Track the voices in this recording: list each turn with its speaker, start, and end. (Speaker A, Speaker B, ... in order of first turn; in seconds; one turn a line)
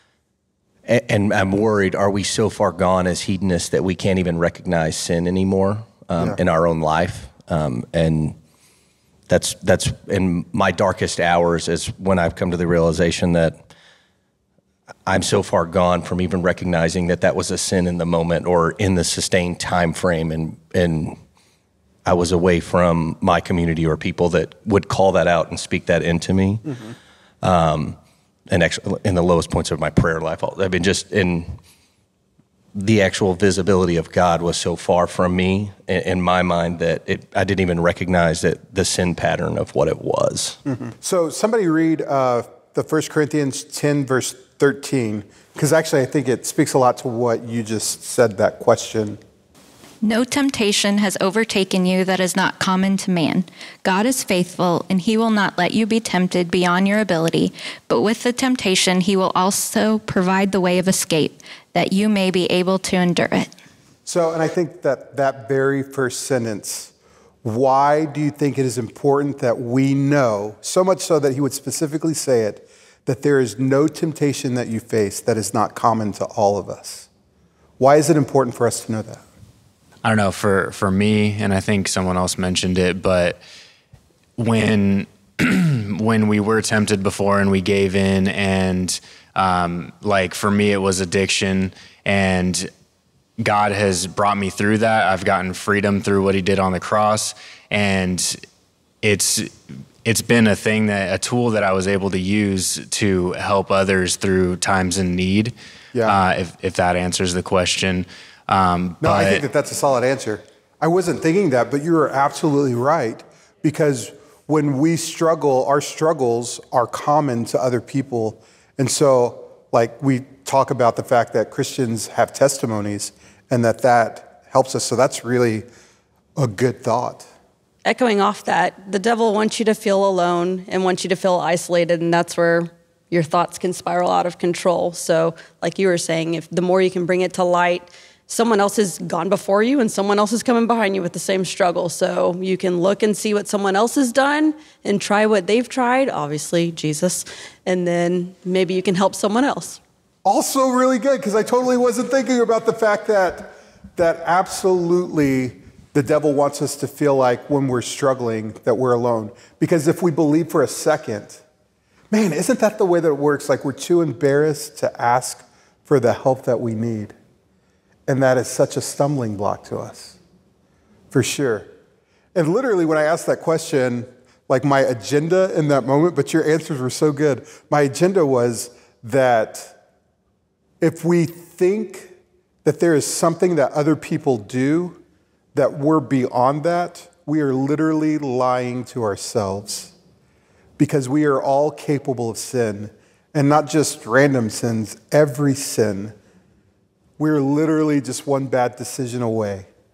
Speaker A: 0.9-8.4
Speaker A: 9.3-13.6
Speaker A: 15.1-21.2
Speaker A: 22.1-26.8
Speaker A: 27.4-28.0
Speaker A: 28.5-31.6
Speaker A: 32.8-40.6
Speaker B: 40.7-49.2
Speaker C: 50.0-63.5
Speaker B: 64.1-66.9
Speaker B: 67.4-77.1
Speaker B: 77.8-79.2
Speaker D: 80.0-83.4
Speaker D: 84.4-92.7
Speaker D: 93.4-98.5
Speaker D: 99.0-105.5
Speaker B: 105.9-106.2
Speaker D: 106.1-109.4
Speaker B: 109.0-125.7
Speaker B: 126.4-127.3
Speaker E: 127.9-149.8
Speaker B: 150.2-161.4
Speaker B: 162.1-167.1
Speaker B: 168.1-170.2
Speaker B: 171.1-171.7
Speaker B: 172.3-179.8
Speaker B: 180.8-185.0
Speaker B: 185.6-189.9
Speaker B: 190.8-196.1
Speaker B: 197.2-199.7